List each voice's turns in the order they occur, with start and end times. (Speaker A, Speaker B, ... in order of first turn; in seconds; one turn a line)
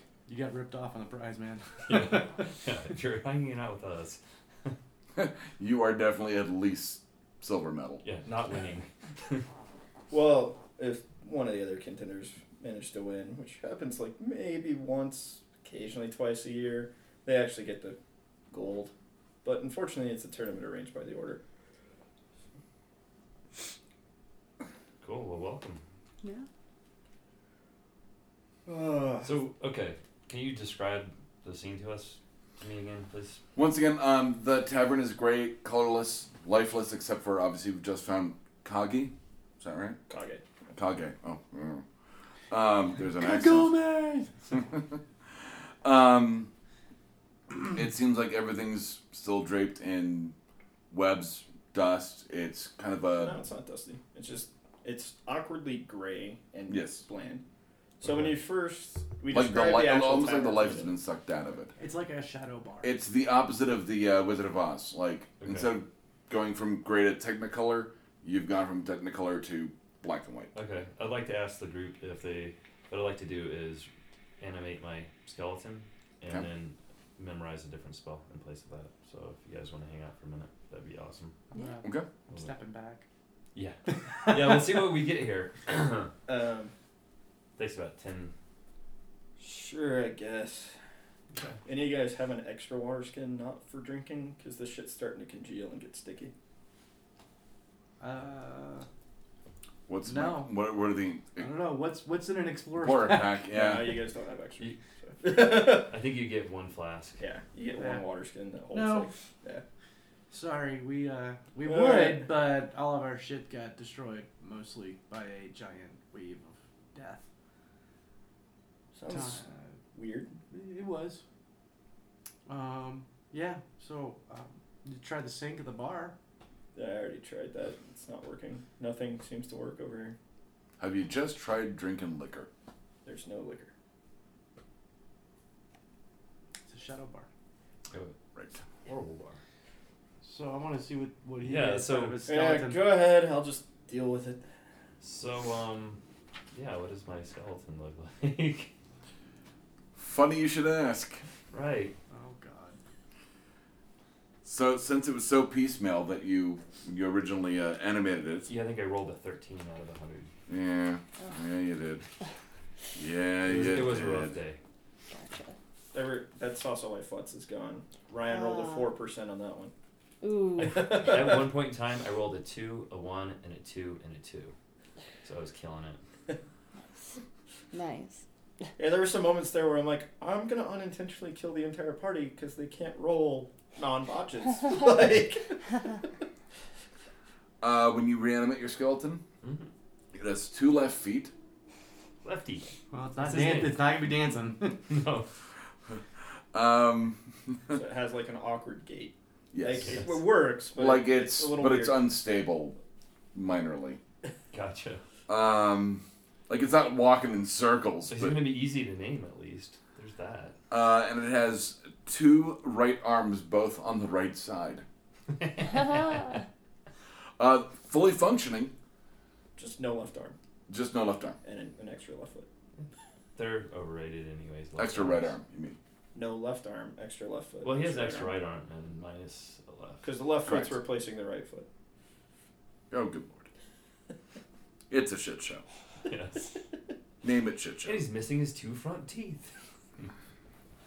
Speaker A: 0.3-2.5
Speaker B: 1.9-4.8
Speaker C: 5.2-8.0
Speaker B: 8.0-9.4
Speaker D: 10.1-18.0
Speaker D: 18.5-18.9
Speaker D: 19.4-21.4
Speaker B: 25.0-25.8
Speaker D: 28.7-29.3
Speaker B: 29.2-33.4
Speaker C: 33.5-40.0
Speaker D: 40.1-40.5
Speaker C: 40.8-41.9
Speaker C: 42.5-43.8
Speaker A: 43.2-44.4
Speaker C: 45.8-46.5
Speaker C: 47.6-50.4
Speaker C: 50.9-53.4
Speaker D: 53.2-57.4
Speaker C: 56.7-57.0
Speaker D: 58.0-60.9
Speaker B: 58.0-58.4
Speaker C: 59.3-61.7
Speaker A: 61.8-62.9
Speaker C: 62.8-70.5
Speaker B: 65.4-65.7
Speaker B: 70.5-81.4
Speaker A: 81.5-83.0
Speaker E: 81.5-81.8
Speaker B: 83.5-86.1
Speaker A: 83.9-84.6
Speaker D: 86.3-86.7
Speaker B: 87.6-88.3
Speaker D: 89.4-90.7
Speaker B: 91.3-91.6
Speaker D: 91.7-96.3
Speaker A: 98.0-98.9
Speaker C: 99.9-101.5
Speaker A: 100.0-100.5
Speaker A: 101.4-103.4
Speaker C: 102.8-104.0
Speaker D: 103.5-105.9
Speaker B: 105.3-107.2
Speaker D: 107.2-109.6
Speaker A: 107.7-108.0
Speaker A: 108.7-109.1
Speaker A: 110.3-117.3
Speaker D: 111.7-112.3
Speaker D: 118.9-120.3
Speaker A: 119.1-119.6
Speaker A: 120.4-121.2
Speaker A: 122.5-126.2
Speaker D: 126.8-130.2
Speaker C: 130.8-132.5
Speaker D: 133.1-133.7
Speaker A: 136.7-137.3
Speaker C: 138.3-138.6
Speaker B: 138.9-139.4
Speaker A: 140.2-142.9
Speaker B: 141.4-142.2
Speaker D: 142.3-144.4
Speaker B: 145.0-146.0
Speaker B: 146.5-148.7
Speaker C: 150.0-151.2
Speaker B: 151.5-151.9
Speaker A: 152.1-152.8
Speaker C: 154.4-158.5
Speaker B: 158.5-160.3
Speaker C: 160.5-162.0
Speaker C: 163.0-164.3
Speaker B: 163.4-164.6
Speaker E: 165.1-165.6
Speaker D: 165.9-169.7
Speaker E: 168.3-168.9
Speaker E: 170.2-171.0
Speaker B: 170.6-174.5
Speaker D: 170.7-171.5
Speaker B: 175.2-176.0
Speaker E: 177.7-178.2
Speaker D: 178.8-185.6
Speaker C: 187.6-189.2
Speaker B: 189.4-189.7
Speaker C: 190.1-191.3
Speaker B: 192.2-194.0
Speaker A: 192.9-194.8
Speaker B: 194.7-195.3
Speaker C: 196.5-197.8
Speaker D: 197.7-202.0
Speaker C: 199.5-200.1
Speaker B: 199.8-200.2
Speaker C: 200.7-202.8
Speaker C: 203.3-204.0
Speaker B: 204.5-205.0
Speaker C: 205.3-208.4
Speaker B: 208.1-210.6
Speaker C: 210.7-214.8
Speaker B: 215.3-216.2
Speaker E: 215.7-216.4
Speaker C: 217.4-218.7
Speaker D: 219.6-220.3
Speaker C: 220.7-221.4
Speaker D: 221.4-222.5
Speaker B: 223.4-225.4
Speaker C: 224.8-225.8
Speaker D: 226.1-228.3
Speaker B: 227.6-230.1
Speaker D: 230.0-231.7
Speaker C: 230.5-230.8
Speaker C: 232.9-233.5
Speaker C: 234.9-235.6
Speaker B: 236.1-236.5
Speaker C: 237.2-238.0
Speaker B: 237.8-240.1